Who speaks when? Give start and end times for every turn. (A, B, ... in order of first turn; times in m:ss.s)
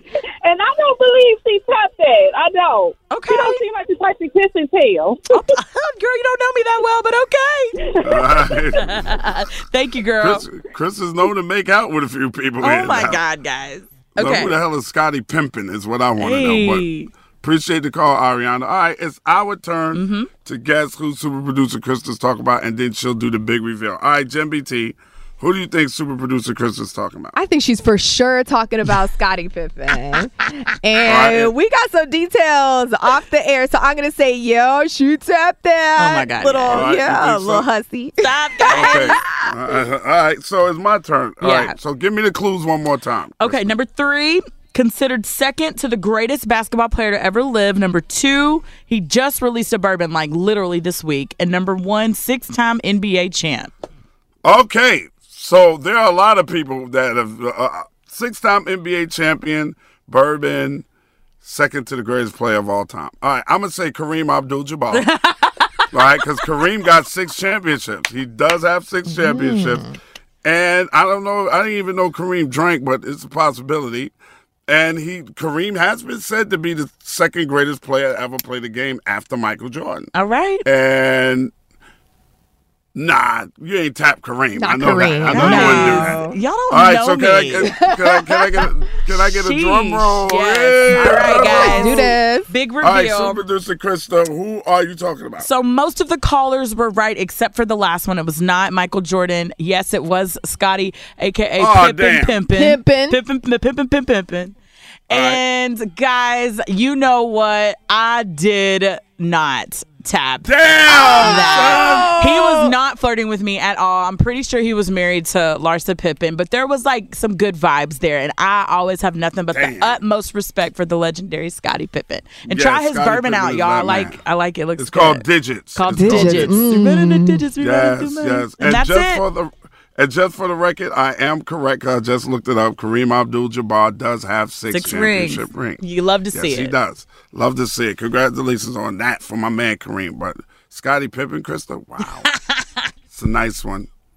0:00.5-0:05.0 A
0:03.1-0:03.6 B
0:05.3-0:07.8 B
0:08.0-0:09.0 C
0:08.8-0:10.4 B
0:10.2-0:13.2 C
0:12.6-0:14.6 B
0:14.2-0:27.4 C
0:16.2-0:17.1 B
0:19.9-0:20.3 B
0:27.3-0:39.5 D
0:31.0-0:31.5 C
0:36.0-0:36.8 B
0:36.7-0:37.7 C
0:38.2-0:39.1 B
0:38.7-0:43.7 C
0:41.4-0:41.8 B
0:43.4-0:53.7 B
0:54.4-1:00.8 C
1:01.4-1:05.1 C
1:04.9-1:06.4 B
1:05.9-1:14.1 C
1:09.1-1:09.7 D
1:14.7-1:20.1 C
1:20.1-1:20.6 B
1:20.6-1:21.5 C
1:22.9-1:32.2 C
1:24.5-1:26.4 D
1:25.2-1:27.7 B
1:27.6-1:28.7 D
1:29.2-1:33.4 B
1:30.9-1:32.5 D
1:32.8-1:35.5 C
1:35.4-1:44.5 B
1:41.6-1:42.4 C
1:42.5-1:43.2 D
1:45.1-2:09.2 B
1:45.1-1:45.4 C
1:50.4-1:52.2 C
1:51.0-1:52.7 D
1:59.5-2:00.0 C
2:02.5-2:04.2 C
2:04.8-2:06.7 C
2:05.9-2:07.5 D
2:07.6-2:22.3 C
2:14.7-2:16.8 B
2:22.0-2:22.6 B
2:23.1-2:23.9 C